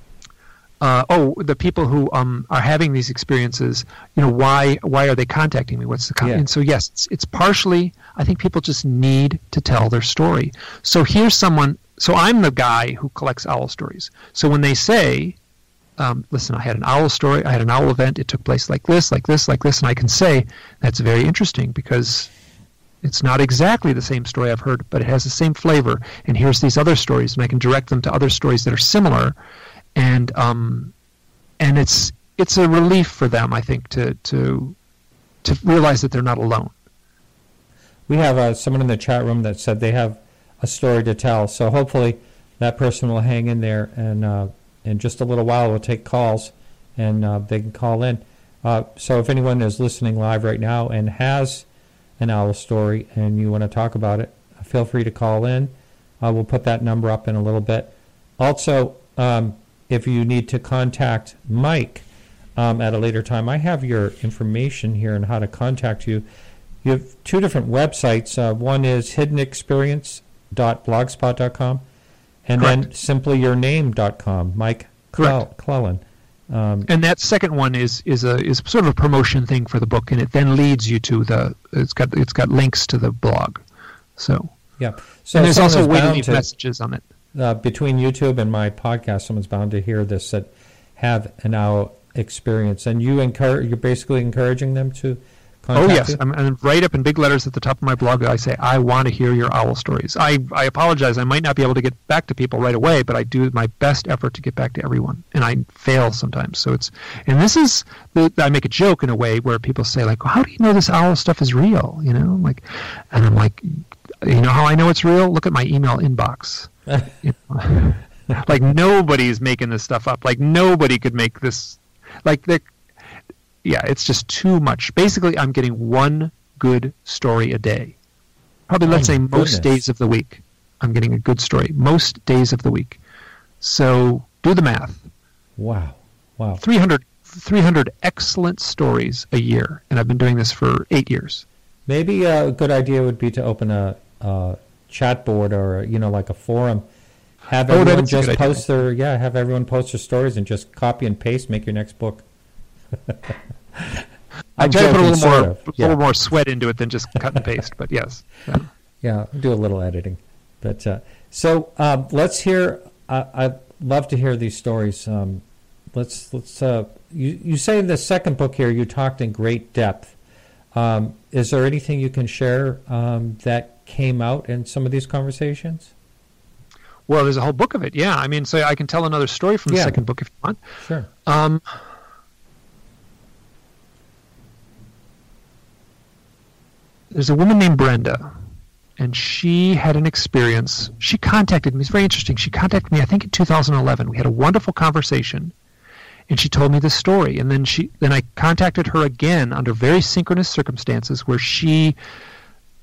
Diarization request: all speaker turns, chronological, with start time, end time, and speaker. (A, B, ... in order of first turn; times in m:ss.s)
0:00.8-0:15.4 A
0:06.2-0:06.5 B
0:16.0-0:22.3 A
0:23.0-0:29.4 A
0:30.0-0:30.9 A
0:31.6-0:34.8 A
0:35.4-0:36.7 A
0:38.1-0:51.7 B
0:52.2-1:02.0 B
1:02.6-1:06.2 B
1:06.8-1:11.8 B
1:12.5-1:16.9 B
1:16.9-1:23.6 A
1:24.2-1:24.5 A
1:24.8-1:26.4 B
1:25.4-1:27.0 A
1:27.4-1:36.2 B
1:35.8-2:02.7 A
2:03.6-2:08.0 A
2:08.7-2:13.0 A
2:08.9-2:09.8 B
2:13.6-2:15.1 A
2:15.6-2:16.6 B
2:16.6-2:21.4 A
2:21.9-2:26.8 B
2:27.5-2:32.2 B
2:27.7-2:28.6 A
2:33.1-2:34.0 B
2:34.6-2:38.7 A
2:34.6-2:36.0 B
2:39.0-2:50.2 B
2:50.7-2:55.9 B
2:57.1-3:00.6 A
2:59.7-3:00.0 B
3:00.8-3:01.1 B
3:01.3-3:01.6 A
3:07.1-3:08.3 A
3:09.0-3:15.5 A
3:16.3-3:22.0 A